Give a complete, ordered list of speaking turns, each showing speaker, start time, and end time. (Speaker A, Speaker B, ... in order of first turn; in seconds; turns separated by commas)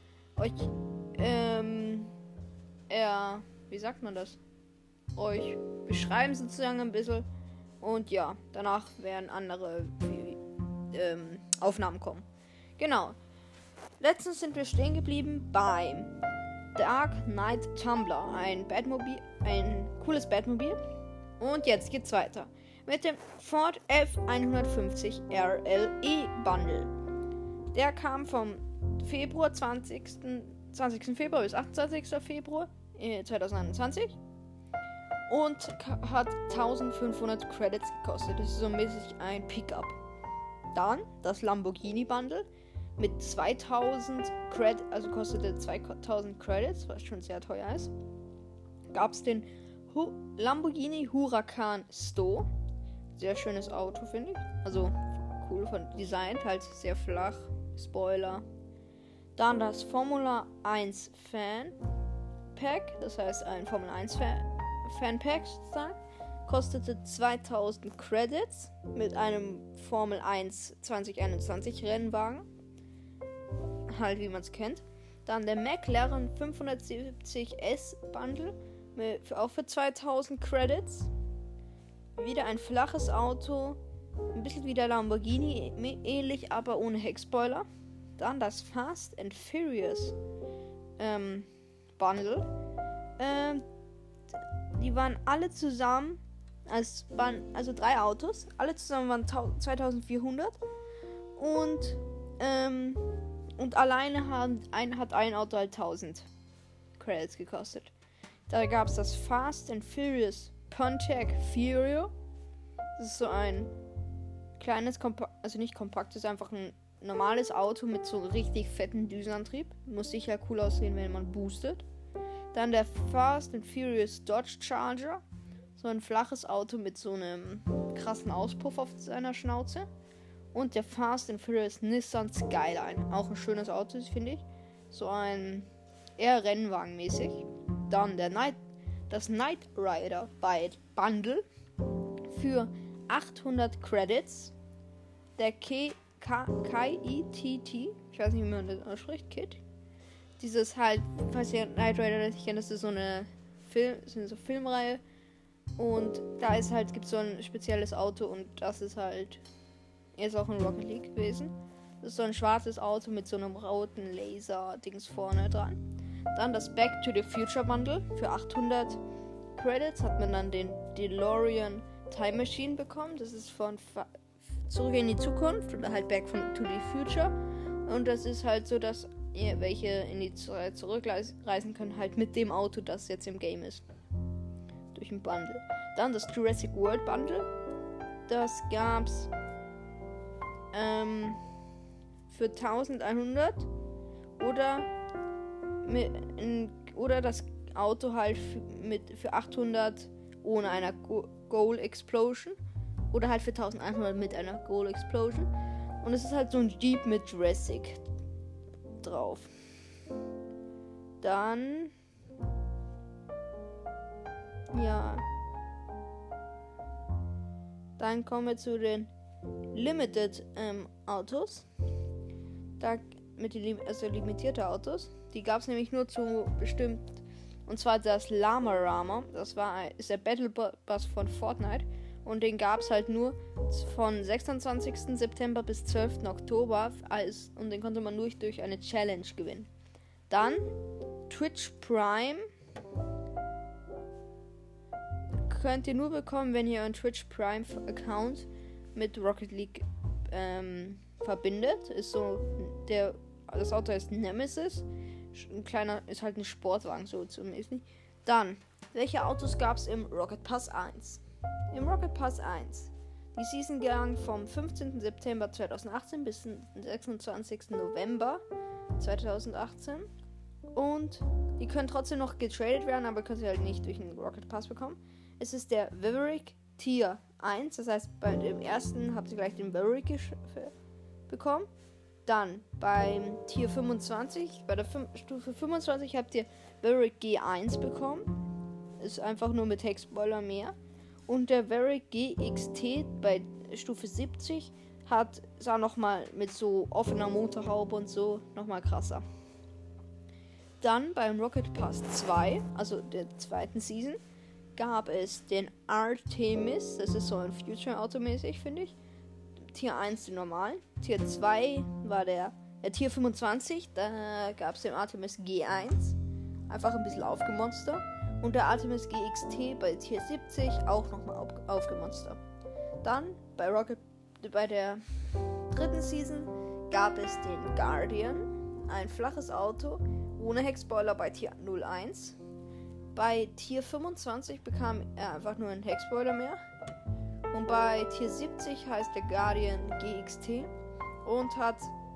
Speaker A: 0.4-2.1, Speaker A: 2.9-4.4, Speaker A: 5.1-7.2, Speaker A: 7.8-12.3, Speaker A: 12.8-13.2, Speaker A: 14.0-16.1, Speaker A: 16.8-20.8, Speaker A: 21.4-26.9, Speaker A: 27.7-34.2, Speaker A: 35.3-40.0, Speaker A: 40.7-47.9, Speaker A: 48.9-52.5, Speaker A: 53.2-58.4, Speaker A: 59.4-61.8, Speaker A: 62.5-72.5, Speaker A: 73.9-81.1, Speaker A: 82.2-83.8, Speaker A: 84.3-90.2, Speaker A: 91.0-92.5, Speaker A: 93.2-93.6, Speaker A: 94.8-100.6, Speaker A: 101.4-103.0, Speaker A: 103.6-106.3, Speaker A: 107.0-107.9, Speaker A: 108.5-112.1, Speaker A: 113.0-113.7, Speaker A: 114.6-121.8, Speaker A: 122.5-125.2, Speaker A: 125.8-129.9, Speaker A: 130.5-138.6, Speaker A: 139.1-141.4, Speaker A: 142.3-144.5, Speaker A: 145.4-149.6, Speaker A: 150.4-155.0, Speaker A: 155.8-159.4, Speaker A: 160.2-165.8, Speaker A: 166.3-169.0, Speaker A: 169.5-183.8, Speaker A: 184.9-187.5, Speaker A: 188.3-189.3, Speaker A: 190.7-191.4, Speaker A: 192.3-193.7, Speaker A: 194.4-194.9, Speaker A: 195.8-202.6, Speaker A: 203.1-208.1, Speaker A: 209.0-209.5, Speaker A: 211.2-211.9, Speaker A: 214.7-215.2, Speaker A: 218.0-219.1, Speaker A: 219.7-221.7, Speaker A: 222.8-239.7, Speaker A: 240.3-240.7, Speaker A: 241.3-242.5, Speaker A: 245.4-268.4, Speaker A: 269.0-270.1, Speaker A: 270.7-280.7, Speaker A: 281.3-281.7, Speaker A: 282.2-288.3, Speaker A: 289.0-290.8, Speaker A: 291.3-299.2, Speaker A: 300.8-304.2, Speaker A: 304.8-308.9, Speaker A: 309.7-316.2, Speaker A: 316.7-322.4, Speaker A: 323.0-325.0, Speaker A: 325.7-332.4, Speaker A: 333.1-336.6, Speaker A: 337.5-340.7, Speaker A: 341.2-341.9